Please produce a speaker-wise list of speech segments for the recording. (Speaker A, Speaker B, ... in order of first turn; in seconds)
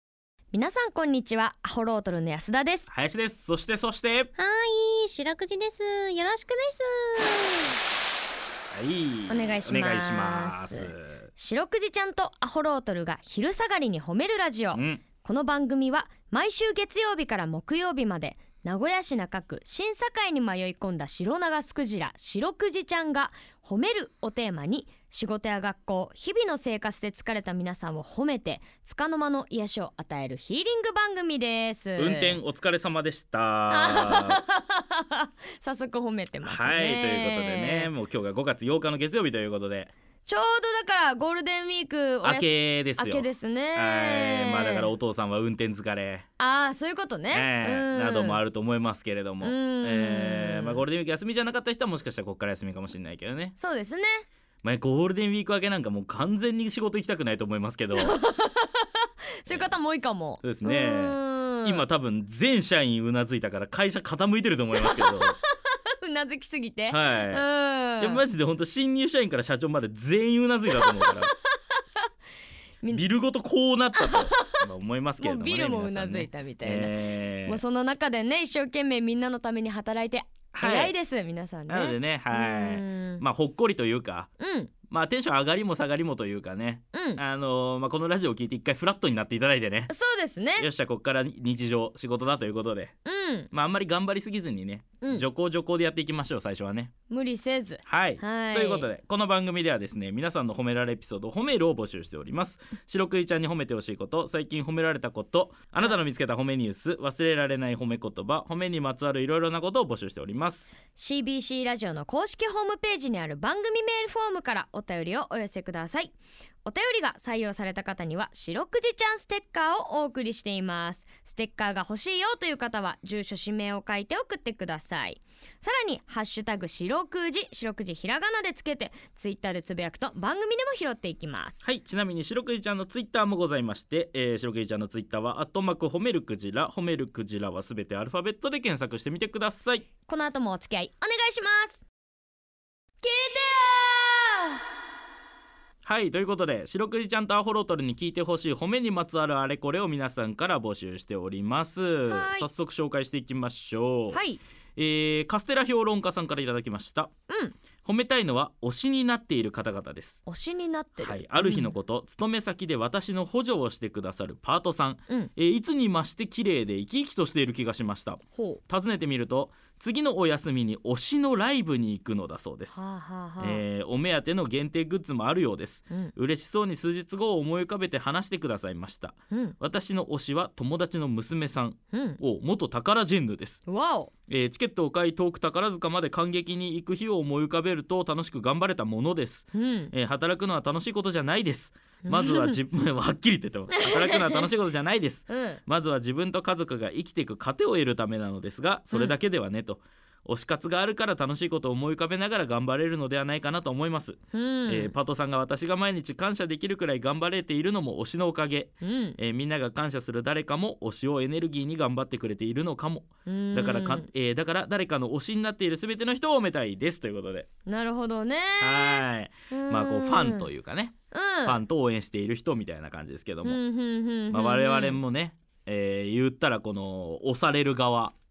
Speaker A: 0.5-2.9, 9.3-32.4, 33.7-37.9, 40.2-44.9, 46.4-48.4, 49.4-50.8, 53.5-54.2, 57.9-61.8, 64.8-68.2, 70.7-71.1, 74.0-74.6, 75.2-83.2, 84.4-84.7, 86.9-87.2, 89.9-90.7, 93.0-93.5, 95.0-95.2, 97.1-98.9, 110.9-116.1, 116.6-131.6, 140.0-141.8, 143.0-144.6, 152.1-152.5, 154.1-154.4, 157.3-157.6, 160.2-161.7, 168.3-168.6, 172.7-173.6, 179.3-179.6, 181.9-182.2, 183.7-184.1, 189.5-189.9, 192.0-192.6, 193.7-194.5, 195.3-195.6, 204.3-204.9, 208.8-209.2, 213.2-214.1, 217.7-220.5, 221.1-221.6, 223.4-225.0
Speaker B: 2.9-4.3, 8.7-11.3, 14.7-15.0, 32.0-34.4, 36.4-39.9, 42.2-46.2, 47.3-53.5, 54.6-58.2, 59.5-59.7, 60.4-65.4, 66.9-67.5, 68.0-71.3, 72.9-77.6, 80.5-80.9, 81.7-84.3, 84.9-89.9, 90.6-92.9, 93.5-96.9, 97.8-110.7, 131.6-139.9, 145.8-154.2, 154.8-157.1, 157.8-160.2, 161.0-172.8, 173.4-183.6, 184.3-217.5, 218.6-223.6, 224.3-228.1
Speaker C: 4.4-7.8